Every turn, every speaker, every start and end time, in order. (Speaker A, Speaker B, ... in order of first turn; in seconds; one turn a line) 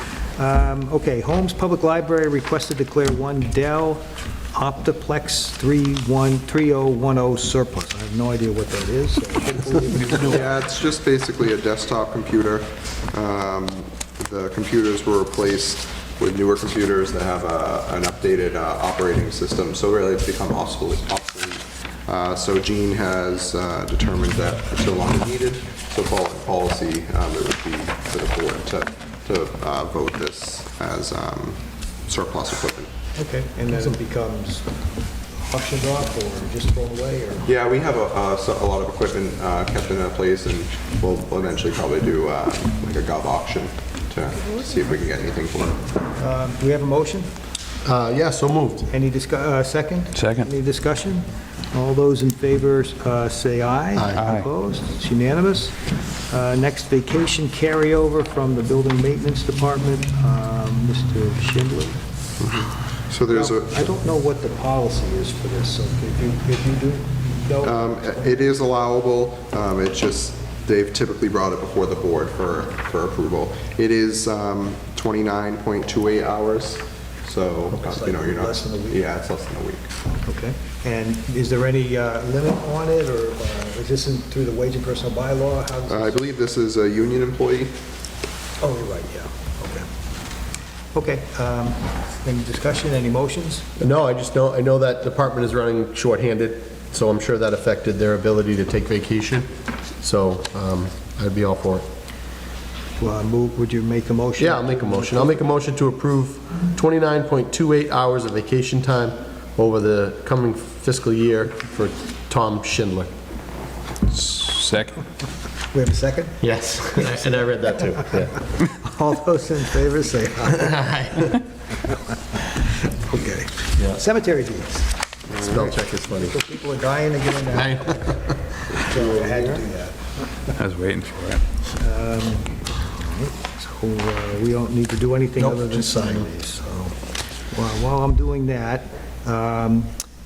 Speaker A: 0.4-10.5
Speaker B: 10.1-32.9
Speaker A: 33.2-34.7
Speaker A: 35.5-37.5
Speaker B: 37.5-45.9
Speaker A: 46.2-47.3
Speaker C: 47.8-48.9
Speaker A: 48.9-55.8
Speaker D: 50.1-50.5
Speaker C: 54.0-54.3
Speaker A: 56.3-62.0
Speaker B: 62.4-63.8
Speaker A: 63.3-68.3
Speaker B: 67.6-79.9
Speaker A: 77.7-79.0
Speaker A: 80.1-86.2
Speaker B: 85.9-87.7
Speaker A: 88.6-89.9
Speaker A: 90.9-93.7
Speaker C: 93.8-99.5
Speaker C: 100.0-101.8
Speaker A: 103.0-105.4
Speaker C: 104.4-113.1
Speaker D: 114.1-115.0
Speaker A: 115.7-116.4
Speaker C: 116.4-118.4
Speaker A: 118.7-121.4
Speaker C: 120.6-121.3
Speaker A: 122.9-124.9
Speaker B: 125.3-125.6
Speaker C: 125.4-126.4
Speaker A: 126.2-128.3
Speaker C: 127.5-128.2
Speaker B: 128.8-129.6
Speaker A: 128.8-130.5
Speaker D: 130.6-131.4
Speaker A: 131.8-139.9
Speaker C: 135.4-136.3